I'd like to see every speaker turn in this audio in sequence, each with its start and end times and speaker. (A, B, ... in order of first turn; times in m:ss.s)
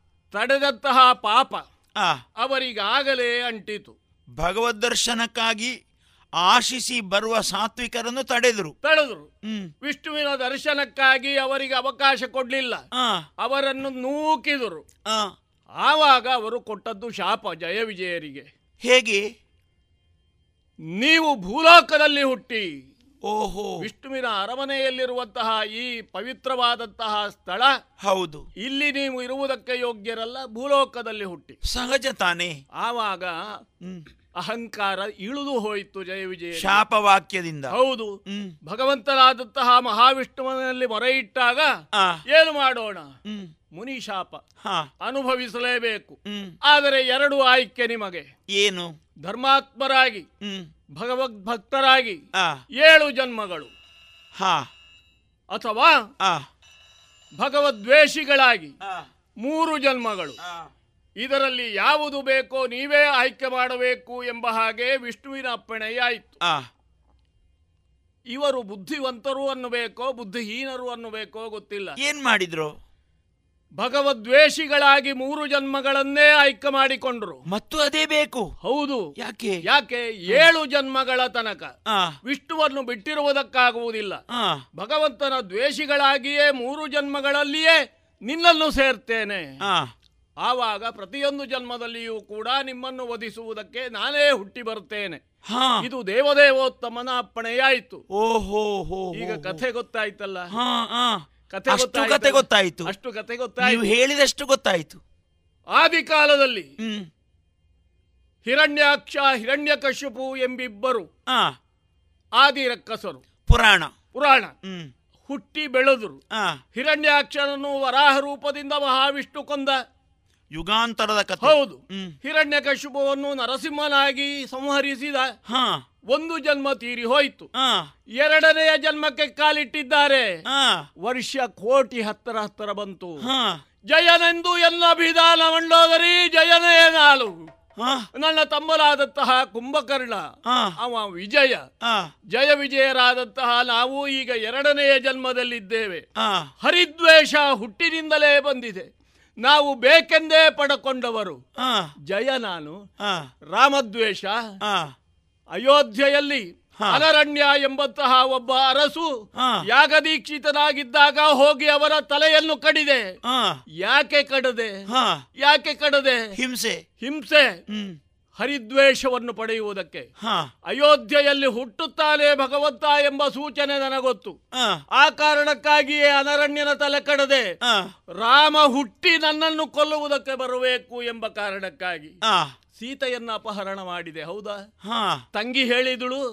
0:00.3-0:01.6 A
0:02.4-0:03.9 A
0:04.4-0:05.7 B
0:06.4-0:08.7 B
0:08.8-0:09.3 A
0:09.8-0:12.8 A
0:12.9-0:13.2 B
0:13.4-0:14.8 A
0:15.1-0:15.3 B
0:15.8-0:18.5 A
0:18.8-0:19.2 B
0:21.0-0:22.6 A
0:23.2-0:23.7 B
0:23.8-0:27.7 A
0:28.0-0:28.4 B
0:28.6-0:31.6 A
0:31.6-0:32.5 B
0:32.8-0:33.3 A
0:34.4-0:36.8 A
0:36.6-0:37.7 B
0:37.7-0:38.1 A
0:38.3-0:38.5 B
0:38.7-0:41.7 A
0:42.3-0:43.1 A
0:43.2-0:43.5 B
0:43.8-0:44.4 A
0:45.0-0:46.2 A
0:46.7-0:48.3 A
0:48.5-0:48.9 B
0:49.2-0:50.2 A
0:50.4-0:50.7 B
0:51.0-0:52.2 A
0:52.8-0:53.7 A
0:54.4-0:54.7 B
0:55.5-0:56.0 A
0:57.4-0:58.7 A
0:59.4-1:00.4 A
1:01.2-1:06.4 A
1:08.3-1:11.9 A
1:12.0-1:12.7 B
1:13.8-1:17.4 A
1:17.5-1:18.5 B
1:18.6-1:19.0 A
1:19.2-1:19.6 B
1:19.7-1:21.7 A
1:21.9-1:22.1 B
1:22.3-1:24.2 A
1:24.3-1:24.6 B
1:24.8-1:29.4 A
1:29.6-1:29.9 B
1:30.4-1:35.2 A
1:35.5-1:35.8 B
1:35.8-1:38.0 A
1:38.1-1:39.6 B
1:39.2-1:40.5 A
1:40.5-1:42.9 B
1:41.5-1:43.8 A
1:43.6-1:45.0 B
1:45.8-1:46.7 A
1:46.8-1:47.1 B
1:48.4-1:51.1 A
1:51.3-1:51.5 B
1:52.4-1:53.2 A
1:53.5-1:54.0 B
1:54.1-1:54.5 A
1:54.6-1:54.9 B
1:55.3-1:56.2 A
1:56.3-1:56.6 B
1:56.7-1:59.8 A
2:00.5-2:02.1 B
2:01.4-2:05.3 A
2:05.5-2:05.8 B
2:06.1-2:07.5 A
2:07.6-2:07.9 B
2:08.2-2:10.3 A
2:10.5-2:10.8 B
2:11.0-2:13.2 A
2:13.2-2:13.6 B
2:13.9-2:17.3 A
2:17.8-2:18.0 B
2:18.2-2:20.2 A
2:20.5-2:20.7 B
2:20.8-2:21.6 A
2:21.8-2:22.1 B
2:22.3-2:26.0 A
2:26.2-2:26.5 B
2:26.6-2:28.9 A
2:29.4-2:31.4 A
2:31.6-2:31.9 B
2:32.1-2:32.8 A
2:33.5-2:34.4 A
2:34.6-2:34.9 B
2:35.6-2:39.1 A
2:39.7-2:43.1 A
2:43.2-2:43.6 B
2:43.8-2:44.7 A
2:44.9-2:45.2 B
2:45.4-2:46.2 A
2:46.4-2:46.8 B
2:47.0-2:47.5 A
2:48.4-2:50.1 A
2:50.2-2:50.5 B
2:50.7-2:54.4 A
2:55.0-2:57.4 A
2:57.6-2:57.9 B
2:58.2-3:02.1 A
3:02.2-3:02.5 B
3:02.8-3:04.6 A
3:04.8-3:05.2 B
3:05.4-3:06.2 A